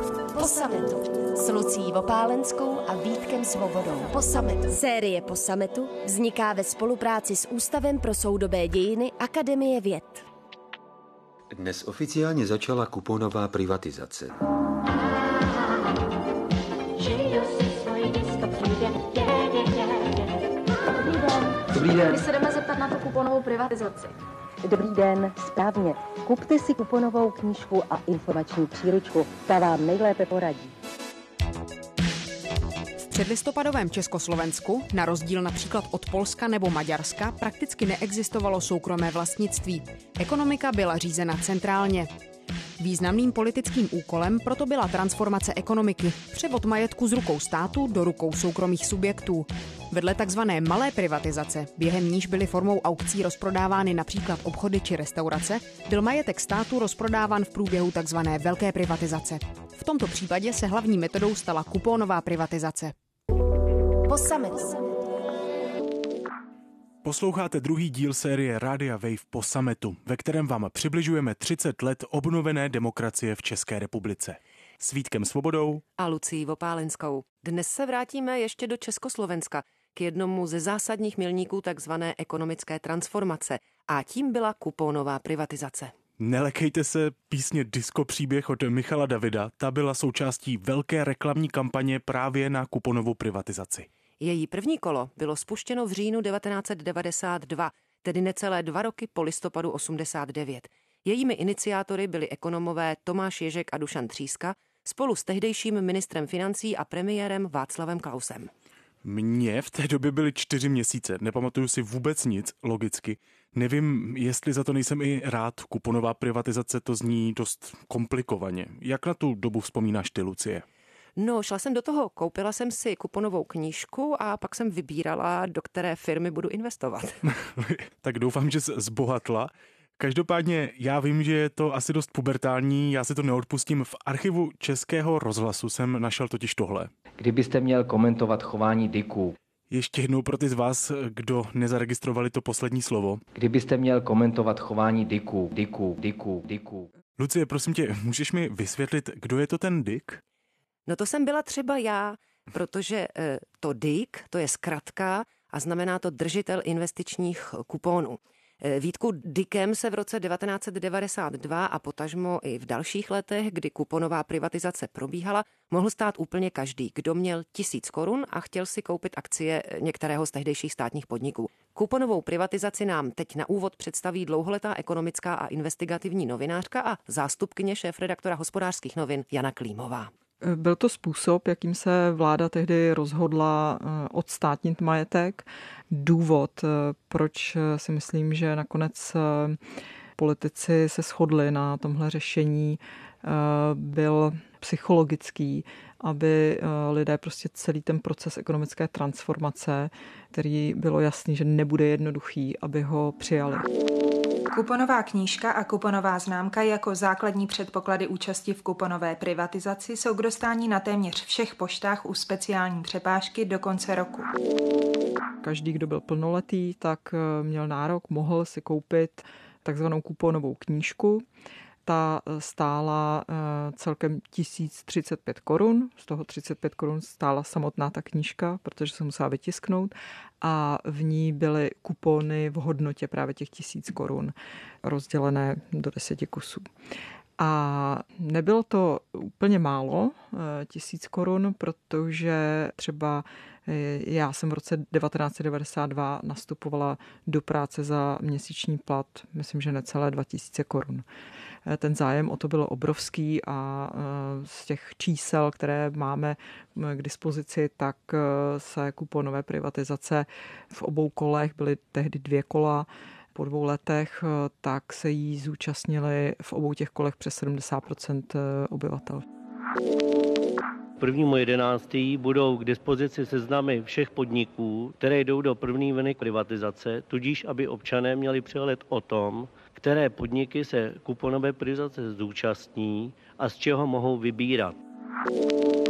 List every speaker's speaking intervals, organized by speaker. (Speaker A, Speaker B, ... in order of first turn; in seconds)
Speaker A: 0.3-10.2, 64.1-64.8
Speaker B: 11.5-14.3
Speaker C: 15.1-15.3, 17.0-20.4, 271.0-284.8
Speaker D: 21.0-24.1
Speaker E: 24.6-30.7
Speaker F: 33.1-42.1, 42.8-62.9
Speaker G: 67.0-75.8, 86.2-93.9, 109.0-120.6, 127.2-136.9, 139.7-143.2, 147.2-150.2
Speaker H: 76.0-85.9, 94.2-108.5, 121.2-127.2, 150.9-180.1
Speaker I: 137.2-139.3, 143.3-146.9
Speaker J: 180.4-189.6, 190.2-203.7, 215.4-221.2, 221.8-236.6, 237.4-251.0, 251.7-269.2
Speaker K: 204.5-214.3